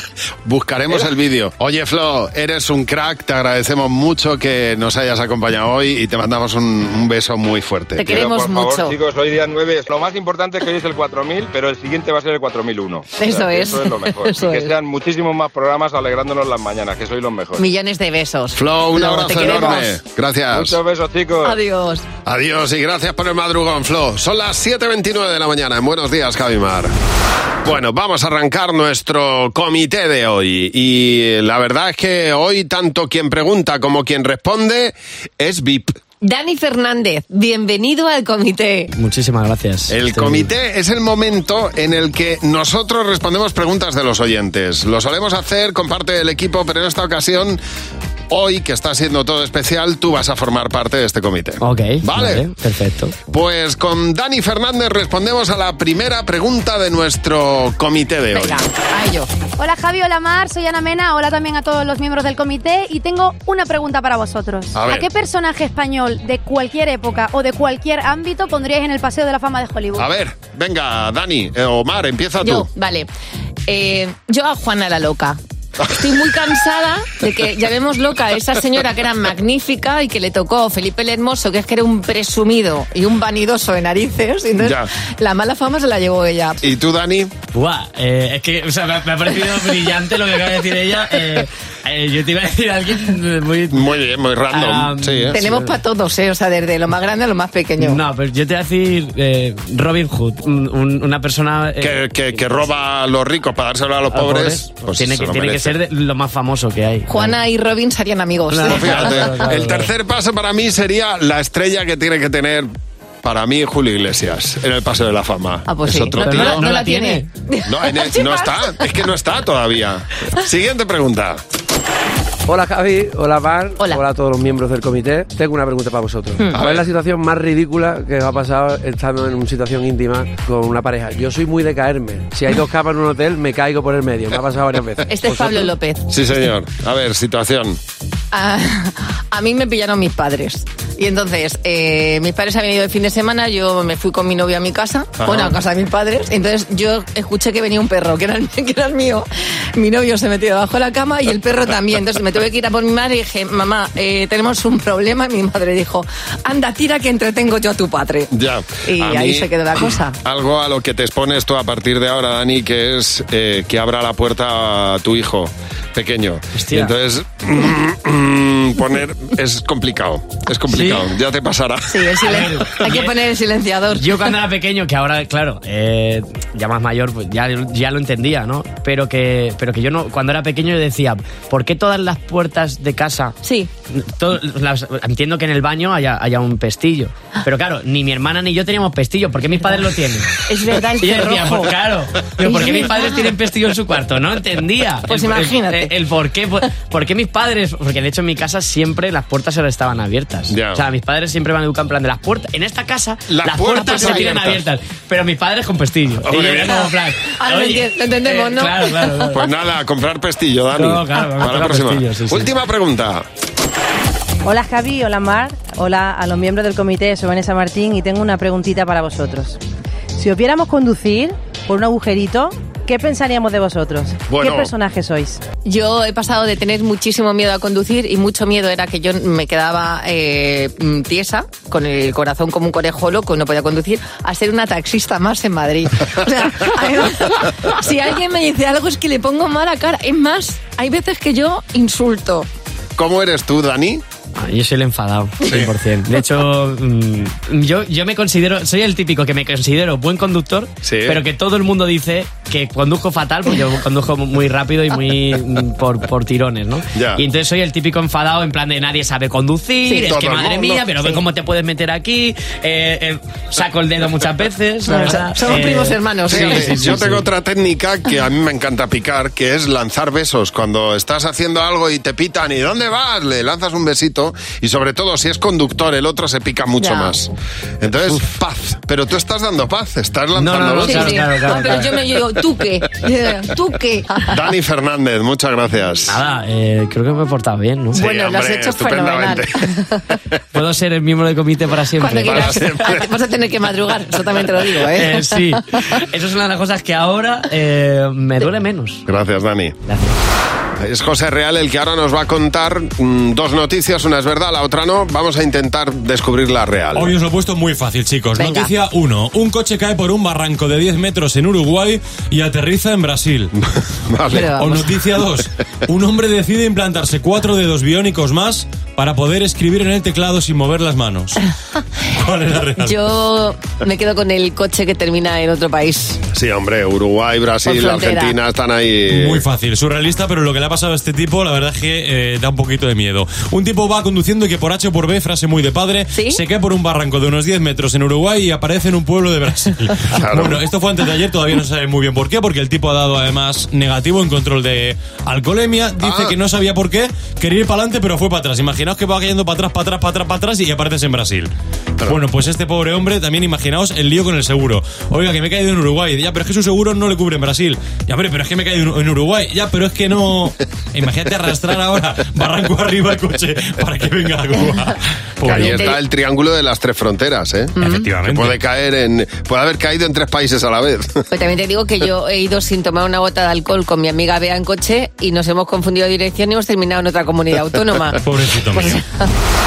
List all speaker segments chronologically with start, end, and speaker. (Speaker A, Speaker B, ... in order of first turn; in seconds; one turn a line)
Speaker A: 0.4-8.2
Speaker B: 8.0-8.9
Speaker C: 8.1-17.6
Speaker B: 13.2-14.7
Speaker B: 17.6-19.9
Speaker A: 18.5-20.8
Speaker C: 20.5-21.6
Speaker B: 21.4-22.1
Speaker A: 22.2-26.9
Speaker A: 27.6-36.0
Speaker B: 36.2-38.9
Speaker D: 38.9-40.5
Speaker A: 39.9-47.6
Speaker A: 48.3-52.5
Speaker D: 51.6-53.1
Speaker A: 53.3-58.6
Speaker B: 58.3-59.3
Speaker E: 59.6-70.1
Speaker A: 64.7-65.1
Speaker A: 70.0-72.7
Speaker B: 72.4-73.1
Speaker B: 73.7-86.6
Speaker A: 84.6-84.9
Speaker A: 86.6-87.3
Speaker D: 87.5-93.9
Speaker A: 93.7-95.3
Speaker D: 94.5-95.8
Speaker B: 95.3-98.0
Speaker D: 97.8-102.7
Speaker A: 101.8-105.8
Speaker D: 104.1-107.4
Speaker B: 107.1-109.5
Speaker D: 108.5-109.8
Speaker A: 108.7-112.7
Speaker F: 108.9-109.8
Speaker A: 113.2-116.7
Speaker B: 115.7-118.8
Speaker D: 116.2-117.3
Speaker A: 117.7-121.4
Speaker F: 122.5-135.7
Speaker A: 126.5-126.8
Speaker B: 135.1-136.0
Speaker A: 136.1-137.8
Speaker B: 138.3-158.3
Speaker A: 145.2-145.6
Speaker A: 158.3-159.5
Speaker B: 158.8-160.2
Speaker A: 160.2-172.1
Speaker D: 166.5-166.9
Speaker D: 170.7-171.1
Speaker B: 171.9-174.3
Speaker D: 172.2-173.2
Speaker D: 173.9-183.3
Speaker B: 183.4-183.7
Speaker D: 183.9-190.3
Speaker B: 190.4-191.7
Speaker D: 190.9-209.4
Speaker B: 192.4-193.3
Speaker B: 195.1-195.9
Speaker A: 200.5-200.8
Speaker A: 203.3-204.6
Speaker B: 203.9-204.2
Speaker A: 206.2-206.8
Speaker B: 206.6-209.4
Speaker A: 209.3-213.3
Speaker D: 210.7-212.5
Speaker G: 214.4-219.6
Speaker G: 220.2-225.4
Speaker A: 224.3-224.7
Speaker B: 225.6-242.5
Speaker A: 243.0-244.0
Speaker D: 244.4-267.3
Speaker A: 245.4-245.7
Speaker A: 250.8-251.2
Speaker A: 256.9-257.2
Speaker B: 259.8-260.2
Speaker A: 260.1-260.9
Speaker B: 264.9-267.0
Speaker A: 266.3-281.2
Speaker B: 276.8-277.1
Speaker D: 280.3-282.0
Speaker B: 280.8-284.3
Speaker A: 284.3-286.2
Speaker D: 286.1-288.0
Speaker B: 287.9-290.0
Speaker A: 287.9-289.7
Speaker D: 290.5-292.7
Speaker B: 292.0-295.4
Speaker A: 292.2-293.1
Speaker D: 294.8-299.0
Speaker A: 299.1-299.8
Speaker D: 299.9-300.2
Speaker A: 300.8-307.1
Speaker H: 306.9-313.5
Speaker B: 308.4-308.7
Speaker A: 314.0-314.5
Speaker B: 314.3-314.9
Speaker H: 314.5-321.4
Speaker H: 322.2-323.0
Speaker B: 322.8-326.2
Speaker A: 326.3-329.4
Speaker B: 327.6-328.4
Speaker H: 329.1-351.5
Speaker B: 336.1-336.4
Speaker A: 340.1-340.6
Speaker A: 346.0-346.3
Speaker H: 352.1-365.9
Speaker A: 365.4-371.2
Speaker B: 365.4-366.0
Speaker B: 367.8-368.1
Speaker H: 367.8-368.6
Speaker B: 371.3-378.2
Speaker H: 378.2-379.0
Speaker B: 378.7-379.3